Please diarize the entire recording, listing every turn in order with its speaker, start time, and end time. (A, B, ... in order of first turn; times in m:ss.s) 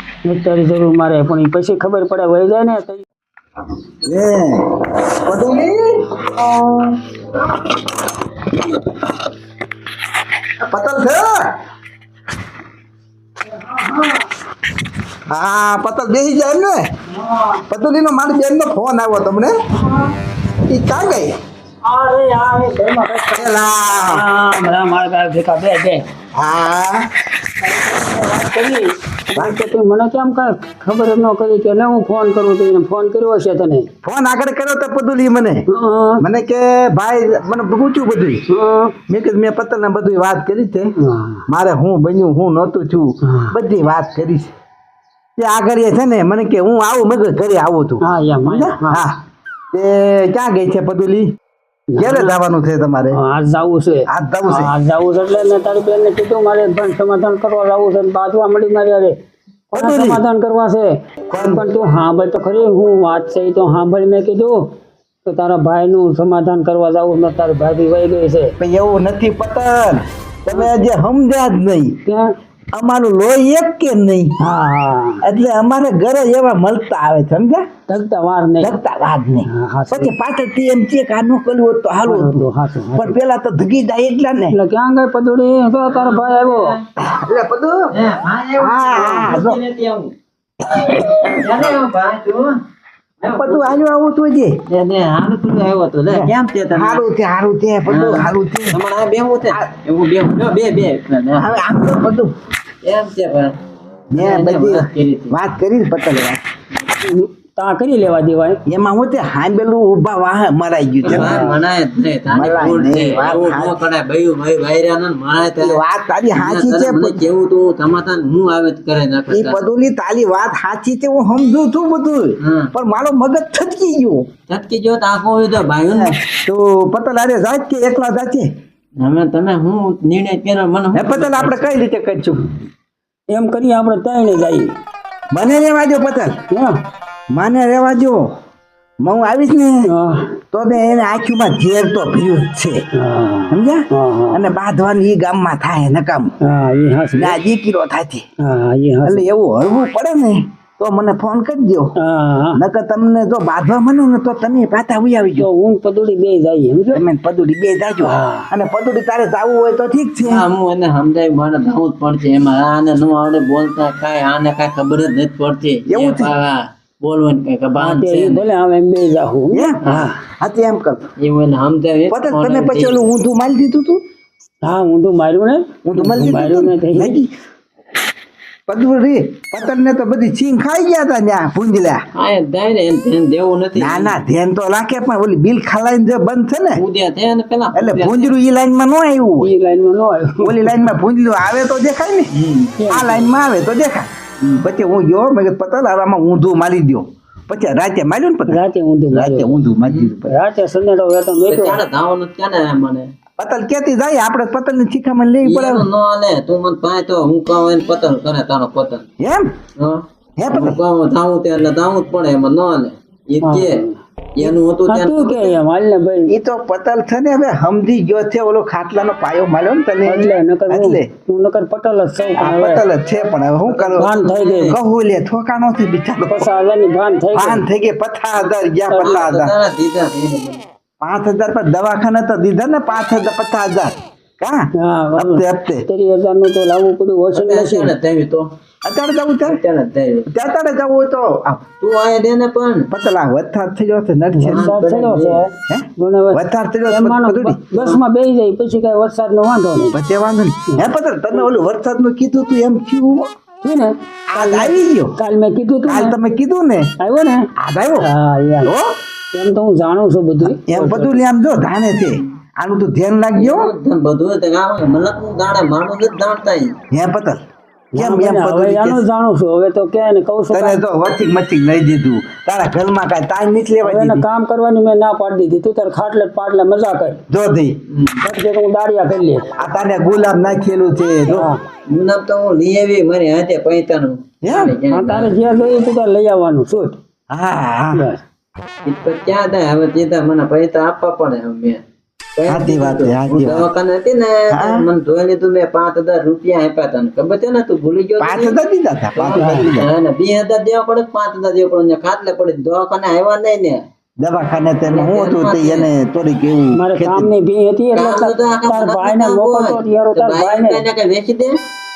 0:00.2-0:03.0 A
0:04.0-0:06.3 B
0:10.6-0:11.5 B
0:13.6-0:14.3 A
0:15.3-0:16.9 B
0:17.1-0:17.6 A
0:17.7-0:19.5 B
0:19.8-0:20.1 A
0:20.6-0:21.4 B
0:21.8-0:26.0 A
0:23.4-0:24.2 B
0:26.3-0:27.1 B
0:27.6-0:33.9 A
0:34.0-0:35.6 B
0:35.7-0:36.2 A
0:36.2-0:38.4 B
0:38.5-0:39.0 A
0:39.1-0:40.9 B
0:41.0-0:41.4 A
0:41.5-0:44.5 B
0:43.2-0:43.6 A
0:45.4-0:49.2 B
0:48.0-0:49.0 A
0:49.7-0:51.3 B
0:51.9-0:52.4 A
0:52.0-0:53.2 B
0:53.1-0:59.2 A
0:54.1-0:54.7 B
0:59.7-1:04.7 A
0:59.7-1:00.2 B
1:01.3-1:01.6 B
1:05.2-1:08.6 A
1:08.6-1:12.0 B
1:12.0-1:12.3 A
1:12.7-1:14.3 B
1:14.4-1:15.2 A
1:15.2-1:17.6 B
1:17.9-1:18.8 A
1:18.6-1:24.6 B
1:19.4-1:20.1 A
1:22.0-1:23.2 A
1:24.5-1:26.8 A
1:25.9-1:26.8 C
1:27.0-1:27.8 B
1:27.9-1:30.1 C
1:28.6-1:29.6 B
1:30.7-1:31.7 B
1:31.3-1:32.6 C
1:33.2-1:33.8 C
1:33.2-1:34.6 B
1:34.7-1:37.0 C
1:36.1-1:38.8 B
1:37.9-1:41.6 C
1:41.3-1:42.3 B
1:42.8-1:43.5 C
1:44.1-1:46.4 B
1:44.1-1:45.3 C
1:47.0-1:48.6 A
1:48.7-1:51.5 B
1:51.0-1:55.8 C
1:51.1-1:51.4 A
1:52.3-1:53.8 B
1:55.6-1:57.2 B
1:56.3-1:59.6 C
1:59.3-2:04.2 B
2:02.4-2:02.7 C
2:04.5-2:06.1 C
2:05.9-2:08.5 B
2:09.0-2:11.6 C
2:10.9-2:12.5 B
2:13.3-2:14.7 A
2:15.3-2:16.4 B
2:16.5-2:16.8 A
2:17.3-2:18.3 B
2:19.0-2:19.9 B
2:19.8-2:20.4 A
2:20.5-2:22.8 B
2:22.9-2:24.5 A
2:23.5-2:26.3 B
2:26.4-2:27.4 A
2:27.1-2:28.2 B
2:28.4-2:29.2 A
2:29.0-2:31.9 B
2:32.0-2:32.6 A
2:32.5-2:35.5 B
2:35.4-2:37.0 A
2:36.9-2:40.5 B
2:38.0-2:38.5 A
2:40.2-2:48.4 C
2:45.8-2:46.3 B
2:47.8-2:50.2 A
2:49.5-2:51.1 B
2:49.8-2:50.1 C
2:51.2-2:53.0 C
2:52.1-2:54.0 B
2:54.6-2:57.2 A
2:55.8-2:57.3 B
2:58.7-3:02.0 B
3:02.1-3:04.2 C
3:03.8-3:06.8 B
3:06.8-3:08.3 C
3:07.7-3:09.5 B
3:09.4-3:10.9 A
3:10.4-3:12.3 B
3:12.3-3:12.8 C
3:12.8-3:13.3 A
3:12.9-3:18.6 B
3:18.5-3:19.5 A
3:19.1-3:20.3 B
3:19.8-3:20.1 C
3:20.2-3:21.8 A
3:21.5-3:23.1 C
3:23.4-3:25.9 B
3:25.4-3:29.0 C
3:29.2-3:29.5 B
3:29.8-3:33.8 C
3:30.4-3:30.8 B
3:33.4-3:36.3 A
3:34.4-3:35.6 C
3:36.3-3:41.1 B
3:40.0-3:42.8 A
3:42.4-3:46.5 B
3:43.6-3:44.8 C
3:43.9-3:44.8 A
3:46.2-3:47.6 A
3:47.3-3:49.5 B
3:48.9-3:49.2 A
3:49.0-3:50.6 C
3:51.0-3:55.8 B
3:54.8-3:57.9 A
3:57.3-3:58.5 C
3:58.8-3:59.6 B
3:59.4-4:00.3 C
4:00.3-4:01.6 B
4:01.8-4:02.9 C
4:02.9-4:04.7 B
4:04.3-4:10.0 A
4:04.4-4:05.4 C
4:05.7-4:07.6 B
4:07.7-4:08.0 C
4:09.9-4:13.3 B
4:13.6-4:16.2 A
4:14.3-4:15.1 B
4:15.8-4:16.9 B
4:17.0-4:17.5 A
4:17.6-4:18.1 B
4:18.0-4:18.7 A
4:18.6-4:18.9 B
4:19.3-4:21.2 A
4:20.4-4:23.7 B
4:23.4-4:26.7 C
4:26.9-4:27.4 B
4:27.9-4:30.8 A
4:28.0-4:29.0 B
4:30.5-4:34.2 B
4:33.8-4:37.2 A
4:37.3-4:37.8 B
4:37.9-4:38.2 C
4:38.2-4:39.6 A
4:39.6-4:41.5 B
4:41.3-4:41.6 A
4:41.9-4:45.3 C
4:44.4-4:44.8 B
4:44.9-4:47.0 A
4:47.3-4:48.0 B
4:47.9-4:48.2 A
4:48.8-4:51.8 C
4:52.4-4:58.6 C
4:52.4-4:53.7 B
4:54.5-4:54.8 B
4:58.2-4:59.9 B
4:59.2-5:03.8 C
4:59.3-4:59.7 A
5:04.2-5:07.3 B
5:04.8-5:05.9 C
5:06.8-5:10.8 A
5:07.9-5:11.6 C